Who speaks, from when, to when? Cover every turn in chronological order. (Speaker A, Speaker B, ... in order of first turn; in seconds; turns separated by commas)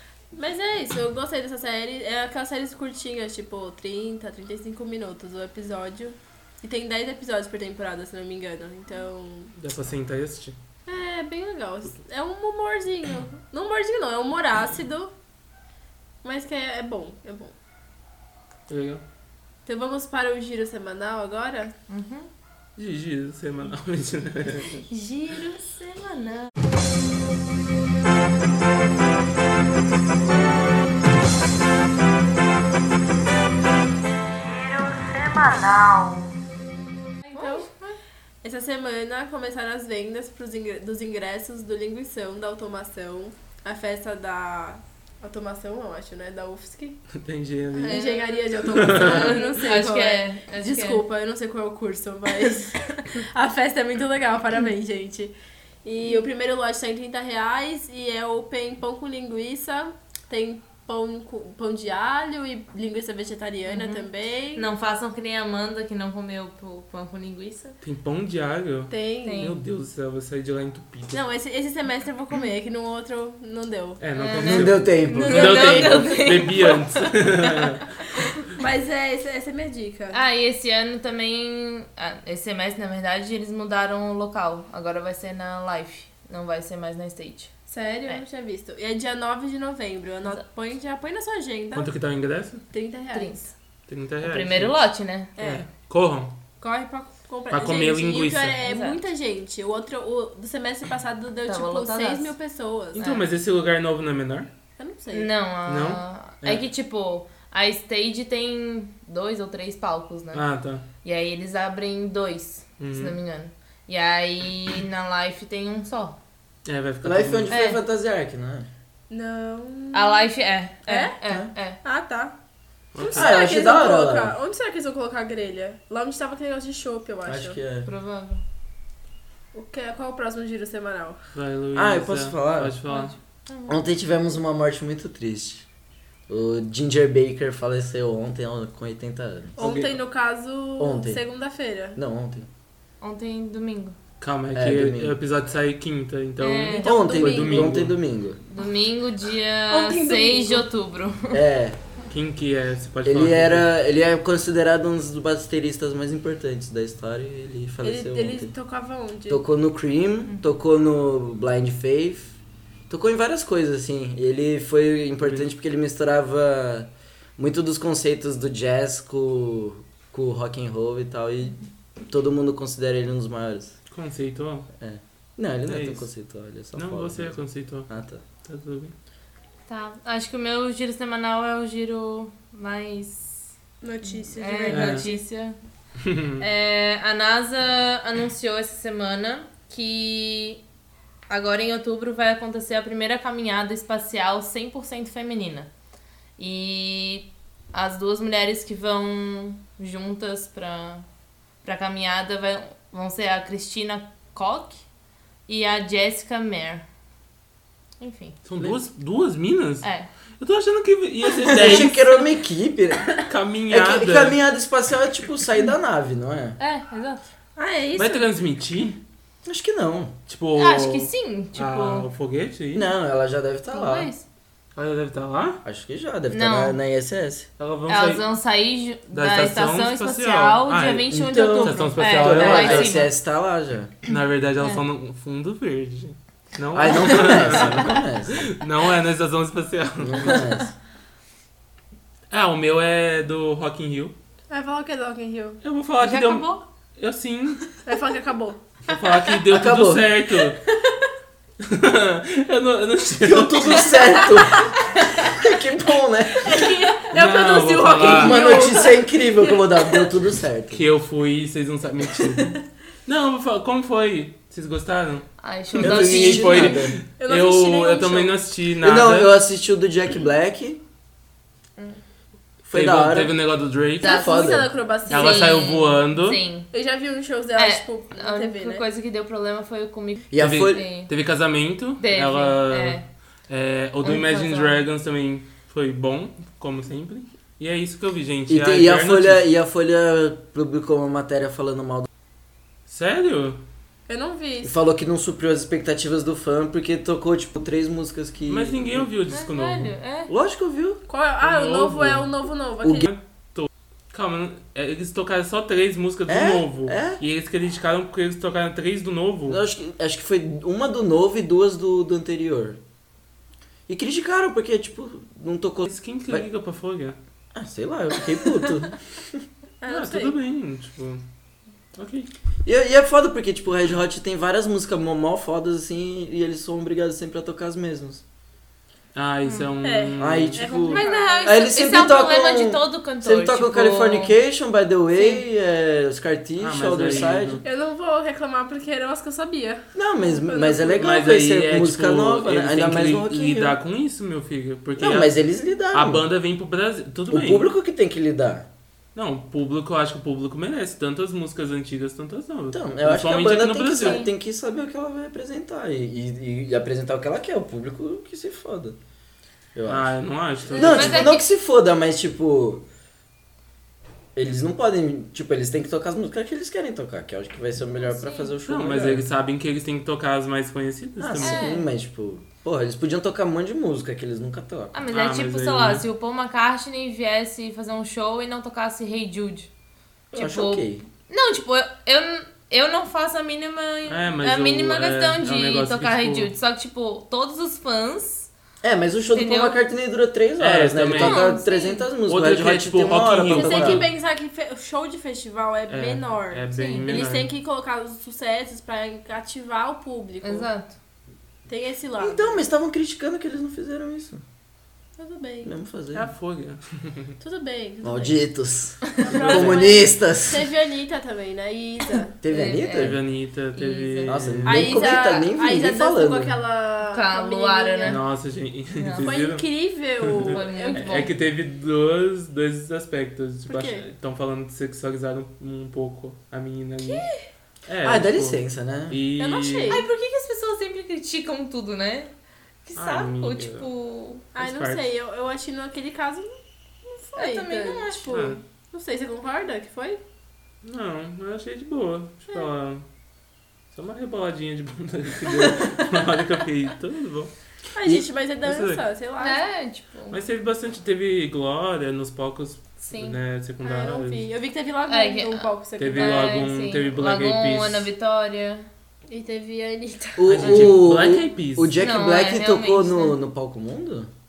Speaker A: 0.3-9.5, Speaker B: 9.6-10.6, Speaker A: 10.8-15.1, Speaker A: 16.2-17.5, Speaker B: 18.7-19.0, Speaker A: 19.6-21.7, Speaker C: 21.9-22.3, Speaker B: 22.8-24.8, Speaker A: 24.9-25.8, Speaker C: 25.4-25.9, Speaker C: 34.3-36.4, Speaker C: 37.3-37.9, Speaker A: 37.3-37.7, Speaker A: 38.4-47.0, Speaker B: 47.1-48.0, Speaker A: 47.7-55.3, Speaker C: 47.8-51.0, Speaker B: 48.6-49.4, Speaker A: 55.8-64.7, Speaker C: 63.6-67.8, Speaker B: 67.8-71.2, Speaker A: 68.9-69.5, Speaker C: 69.2-69.6, Speaker A: 71.1-74.0, Speaker B: 74.0-78.0, Speaker C: 74.1-77.5, Speaker D: 74.4-76.0, Speaker A: 78.5-80.2, Speaker C: 80.1-88.2, Speaker A: 87.7-91.9, Speaker B: 91.7-92.6, Speaker A: 92.7-93.5, Speaker C: 93.1-93.5, Speaker B: 93.9-94.8, Speaker C: 94.2-95.3, Speaker A: 95.4-95.6, Speaker B: 95.4-96.3, Speaker A: 96.6-103.0, Speaker B: 97.5-98.5, Speaker C: 98.6-99.0, Speaker C: 101.5-102.3, Speaker C: 102.9-103.3, Speaker B: 103.0-104.5, Speaker A: 104.8-105.3, Speaker C: 105.1-110.4, Speaker B: 105.7-106.6, Speaker B: 110.3-110.8, Speaker C: 111.0-116.2, Speaker B: 112.8-113.2, Speaker B: 116.7-117.5, Speaker D: 117.0-118.7, Speaker C: 117.5-117.8, Speaker A: 119.1-120.3, Speaker C: 119.9-121.8, Speaker A: 120.9-121.2, Speaker A: 121.8-122.3, Speaker B: 122.9-123.4, Speaker A: 123.0-127.6, Speaker D: 123.1-124.3, Speaker D: 127.2-127.9, Speaker C: 127.8-128.4, Speaker A: 129.5-131.2, Speaker B: 131.3-133.1, Speaker D: 131.7-132.8, Speaker C: 132.9-133.8, Speaker D: 133.7-135.6, Speaker D: 136.3-139.6, Speaker B: 139.6-140.0, Speaker A: 139.6-142.0, Speaker D: 140.8-141.2, Speaker D: 141.9-142.5, Speaker C: 143.0-143.9, Speaker B: 144.2-148.0, Speaker D: 144.5-145.2, Speaker C: 146.4-147.0, Speaker A: 146.8-147.8, Speaker D: 146.8-148.4, Speaker C: 148.5-151.4, Speaker A: 149.7-150.6, Speaker D: 151.3-151.8, Speaker B: 152.1-153.7, Speaker D: 153.0-158.5, Speaker A: 157.8-159.4, Speaker D: 159.3-162.3, Speaker D: 162.9-173.7, Speaker B: 173.9-174.7, Speaker D: 174.8-178.2, Speaker B: 175.7-176.1, Speaker B: 176.7-177.9, Speaker B: 178.4-178.9, Speaker C: 179.7-183.5, Speaker A: 183.8-185.2, Speaker C: 184.0-185.6, Speaker B: 184.7-185.1, Speaker B: 186.0-186.4, Speaker C: 186.4-190.6, Speaker C: 191.3-195.7, Speaker C: 196.4-201.1, Speaker C: 201.6-204.8, Speaker C: 205.5-206.8, Speaker C: 208.0-208.4, Speaker B: 208.4-209.9, Speaker C: 209.8-210.1, Speaker B: 210.4-212.0, Speaker D: 211.5-213.1, Speaker C: 211.5-212.2, Speaker B: 213.2-214.4, Speaker D: 213.7-216.6, Speaker C: 216.6-217.2, Speaker A: 217.6-218.3, Speaker B: 217.9-219.0, Speaker D: 219.4-220.1, Speaker B: 220.3-222.9, Speaker C: 220.6-222.1, Speaker D: 222.7-224.1, Speaker C: 223.7-224.2, Speaker B: 224.8-225.6, Speaker D: 225.6-227.5, Speaker C: 226.3-226.8, Speaker B: 227.6-228.2, Speaker C: 227.9-233.1, Speaker B: 229.1-231.1, Speaker D: 231.1-233.9, Speaker B: 231.6-232.9, Speaker B: 234.1-240.4, Speaker D: 236.7-238.5, Speaker D: 240.0-240.7, Speaker B: 242.3-244.1, Speaker A: 244.5-245.6, Speaker B: 245.6-247.7, Speaker C: 246.0-246.6, Speaker A: 247.8-248.6, Speaker B: 248.9-250.6, Speaker D: 249.5-250.1, Speaker B: 251.6-253.9, Speaker D: 253.2-256.7, Speaker A: 253.9-254.7, Speaker A: 256.4-260.1, Speaker B: 257.1-258.6, Speaker D: 257.9-260.8, Speaker B: 260.7-269.3, Speaker C: 265.4-266.9, Speaker D: 265.7-267.0, Speaker A: 267.2-268.4, Speaker D: 268.8-270.8, Speaker D: 272.7-273.3, Speaker B: 272.7-274.2, Speaker C: 274.0-276.7, Speaker A: 274.0-275.6, Speaker D: 274.1-274.7, Speaker B: 275.1-276.4, Speaker A: 276.7-278.8, Speaker C: 277.5-281.1, Speaker D: 280.3-280.8, Speaker B: 280.4-289.4, Speaker C: 282.0-283.0, Speaker C: 284.0-284.8, Speaker D: 288.5-292.1, Speaker B: 292.9-293.6, Speaker A: 294.1-294.7, Speaker D: 294.6-299.1, Speaker B: 298.5-299.9, Speaker C: 299.3-300.3, Speaker D: 300.3-301.0, Speaker A: 301.1-303.1, Speaker B: 301.4-302.2, Speaker B: 303.0-309.6, Speaker D: 306.3-307.2, Speaker D: 309.5-312.8, Speaker D: 313.9-316.5, Speaker B: 315.9-317.2, Speaker D: 317.5-319.4, Speaker A: 319.8-320.4, Speaker B: 319.9-321.2, Speaker B: 321.9-322.3, Speaker D: 322.6-328.2, Speaker B: 329.1-330.6, Speaker C: 329.4-329.7, Speaker A: 329.8-331.6, Speaker D: 330.2-337.6, Speaker C: 330.8-334.4, Speaker C: 335.1-335.4, Speaker B: 336.6-337.6, Speaker A: 337.6-341.1, Speaker D: 339.9-343.8, Speaker B: 341.0-345.3, Speaker D: 345.0-346.2, Speaker B: 345.9-347.7, Speaker D: 347.3-348.6, Speaker B: 349.1-354.2, Speaker D: 352.7-359.0, Speaker C: 354.0-354.3, Speaker D: 359.7-360.1, Speaker B: 359.9-361.3, Speaker D: 360.7-362.8, Speaker C: 360.7-361.4, Speaker D: 364.3-369.2, Speaker C: 368.0-368.5, Speaker B: 368.6-371.7, Speaker D: 371.2-375.0, Speaker C: 371.4-371.9, Speaker C: 374.9-379.7, Speaker B: 375.1-376.0, Speaker D: 380.3-381.0, Speaker C: 380.3-388.5, Speaker B: 384.1-386.5, Speaker D: 388.8-394.0, Speaker C: 389.3-389.8, Speaker B: 390.6-391.5, Speaker C: 391.1-392.1, Speaker B: 392.2-394.1, Speaker A: 393.5-400.7, Speaker B: 395.9-397.5, Speaker C: 396.7-397.1, Speaker C: 400.4-400.9, Speaker A: 401.7-402.6, Speaker D: 402.2-404.4, Speaker A: 405.2-405.7, Speaker D: 405.6-406.3, Speaker B: 406.1-407.3, Speaker A: 407.4-408.3, Speaker D: 408.0-410.6, Speaker A: 409.2-412.3, Speaker B: 409.5-409.8, Speaker D: 412.4-413.2, Speaker C: 412.5-413.2, Speaker B: 412.9-415.0, Speaker C: 413.8-414.4, Speaker D: 414.3-416.6, Speaker A: 414.6-418.2, Speaker C: 417.1-418.2, Speaker B: 418.1-419.7, Speaker C: 418.9-419.4, Speaker A: 419.2-421.1, Speaker B: 420.2-427.3, Speaker C: 420.4-421.3, Speaker A: 423.7-424.1, Speaker B: 427.9-430.0, Speaker D: 428.0-429.2, Speaker A: 429.4-430.0, Speaker C: 429.9-432.3, Speaker C: 432.8-434.5, Speaker B: 432.9-433.9, Speaker A: 434.5-440.2, Speaker B: 434.6-435.1, Speaker C: 437.4-438.4, Speaker B: 438.3-438.6, Speaker B: 440.8-443.0, Speaker B: 443.9-447.5, Speaker C: 445.6-445.9, Speaker A: 447.9-449.6, Speaker B: 448.6-449.0, Speaker C: 449.4-450.4, Speaker B: 450.3-454.5, Speaker C: 453.0-453.4, Speaker A: 453.8-456.6, Speaker C: 455.1-458.9, Speaker B: 456.0-458.1, Speaker A: 459.3-460.8, Speaker D: 460.4-464.3, Speaker B: 460.5-462.0, Speaker C: 460.6-461.1, Speaker C: 461.9-463.4